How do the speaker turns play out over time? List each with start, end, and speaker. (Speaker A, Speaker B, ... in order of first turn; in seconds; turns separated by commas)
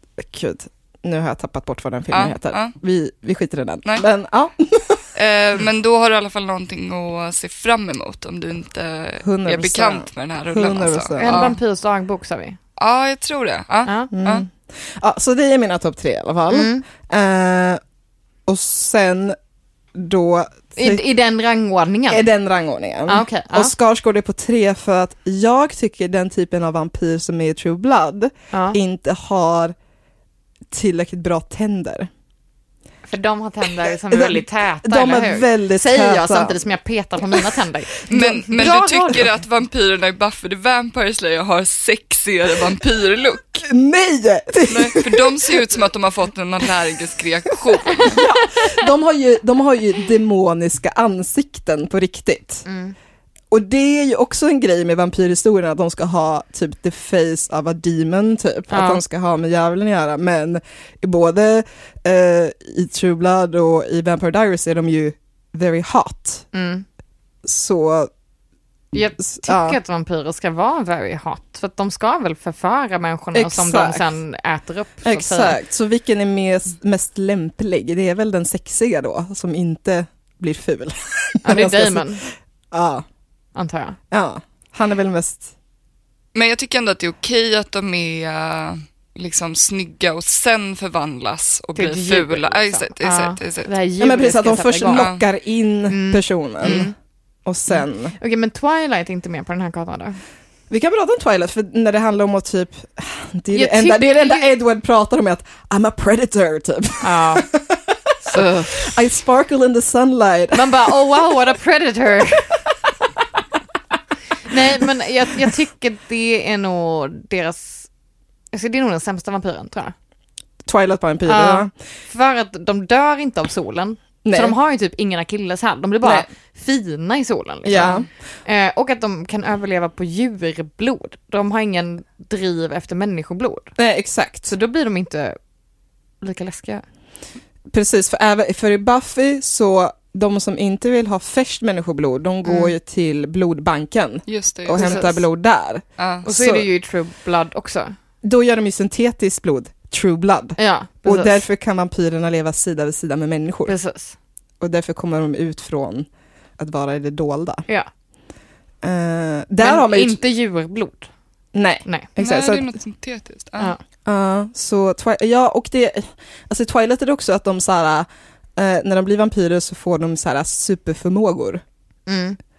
Speaker A: 0.2-5.0, Speaker B: 2.1-2.7, Speaker B: 5.1-11.6, Speaker A: 9.2-11.5, Speaker C: 11.2-12.6, Speaker B: 12.8-14.4, Speaker C: 13.8-14.1, Speaker A: 14.1-17.8, Speaker C: 16.5-16.8, Speaker A: 18.5-19.4, Speaker A: 19.9-21.0, Speaker C: 20.8-22.3, Speaker A: 22.1-29.7, Speaker C: 23.1-23.7, Speaker C: 28.5-28.8, Speaker A: 30.7-32.1, Speaker C: 33.0-39.3, Speaker A: 34.1-36.5, Speaker B: 38.1-43.6, Speaker A: 43.6-45.8, Speaker B: 44.7-48.2, Speaker A: 48.0-52.6, Speaker C: 52.6-52.9, Speaker A: 53.5-66.5, Speaker C: 58.7-59.0, Speaker C: 66.5-66.8, Speaker A: 67.4-68.1, Speaker C: 68.9-75.6, Speaker A: 69.2-69.8, Speaker A: 73.3-74.1, Speaker A: 75.0-83.0, Speaker C: 81.4-82.2, Speaker C: 83.5-84.0, Speaker A: 84.1-85.5, Speaker B: 86.3-93.7, Speaker C: 91.7-95.1, Speaker A: 94.0-96.9, Speaker B: 94.9-95.2, Speaker C: 95.9-96.9, Speaker A: 97.4-98.1, Speaker C: 97.7-100.2, Speaker A: 100.7-111.2, Speaker C: 103.5-104.5, Speaker C: 107.0-107.5, Speaker B: 108.3-108.7, Speaker C: 110.5-112.6, Speaker C: 114.4-117.9, Speaker C: 118.5-119.9, Speaker A: 120.6-121.7, Speaker C: 121.2-133.7, Speaker A: 124.2-124.5, Speaker A: 127.6-128.1, Speaker A: 133.8-134.5, Speaker C: 134.5-135.4, Speaker C: 136.2-136.8, Speaker A: 137.7-146.7, Speaker C: 142.4-142.7, Speaker B: 144.3-144.8, Speaker C: 144.7-145.2, Speaker B: 146.0-146.2, Speaker C: 146.2-147.9, Speaker A: 148.2-153.7, Speaker C: 150.6-151.4, Speaker C: 153.7-154.2, Speaker A: 154.6-157.6, Speaker A: 158.8-160.2, Speaker C: 159.6-161.1, Speaker A: 161.5-162.7, Speaker B: 162.2-163.7, Speaker A: 164.0-171.6, Speaker C: 172.1-172.4